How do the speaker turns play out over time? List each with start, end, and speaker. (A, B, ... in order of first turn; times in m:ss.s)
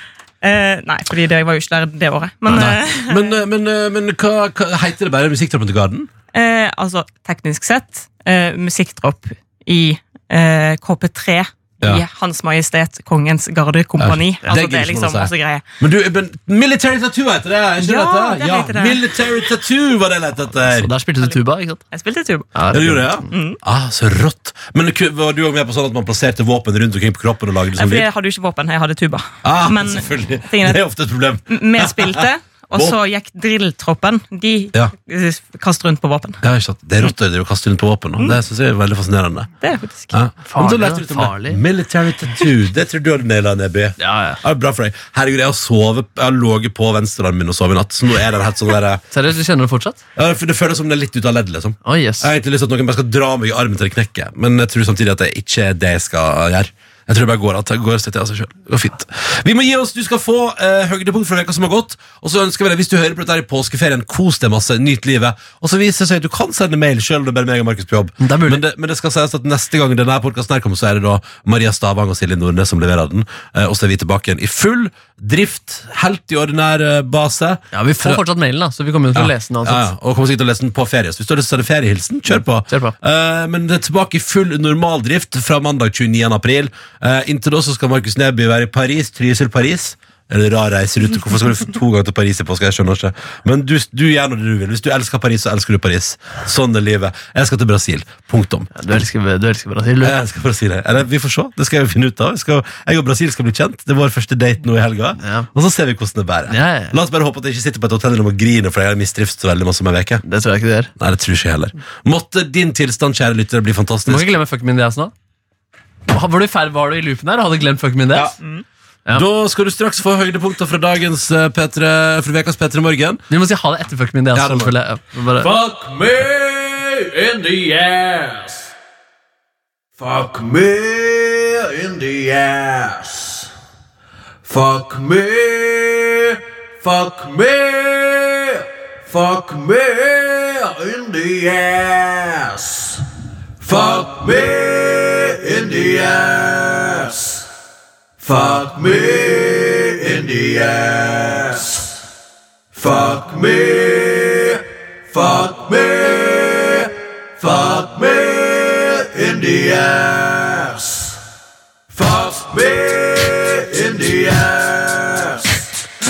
0:00.4-0:03.3 A
0:02.5-0:06.1 B
0:06.3-0:15.6 A
0:14.0-0:20.9 B
0:17.8-0:19.1 A
0:20.6-0:21.8 C
0:21.9-0:22.6 A
0:22.5-0:23.2 C
0:22.7-0:28.1 B
0:23.3-0:23.6 A
0:27.8-0:30.8 A
0:29.4-0:33.0 B
0:31.5-0:36.4 A
0:36.4-0:39.5 B
0:39.6-0:40.2 A
0:40.1-0:49.0 B
0:40.4-0:41.6 C
0:44.0-0:44.4 C
0:49.1-0:50.0 C
0:50.2-1:18.2 B
0:51.8-0:52.3 C
1:08.2-1:08.6 C
1:17.7-1:19.9 C
1:19.1-1:38.7 B
1:22.7-1:22.9 C
1:38.7-1:40.2 C
1:40.0-1:50.2 B
1:45.2-1:45.5 C
1:46.5-1:47.0 C
1:50.2-1:50.9 C
1:51.0-1:54.3 B
1:54.0-1:55.1 C
1:56.1-1:58.3 C
1:59.1-2:03.2 B
2:03.3-2:05.5 C
2:04.3-2:04.7 B
2:05.4-2:08.7 D
2:10.0-2:13.5 D
2:14.4-2:23.0 D
2:23.6-2:27.4 D
2:28.2-2:31.9 D
2:32.7-2:41.1 D
2:41.9-2:45.6 D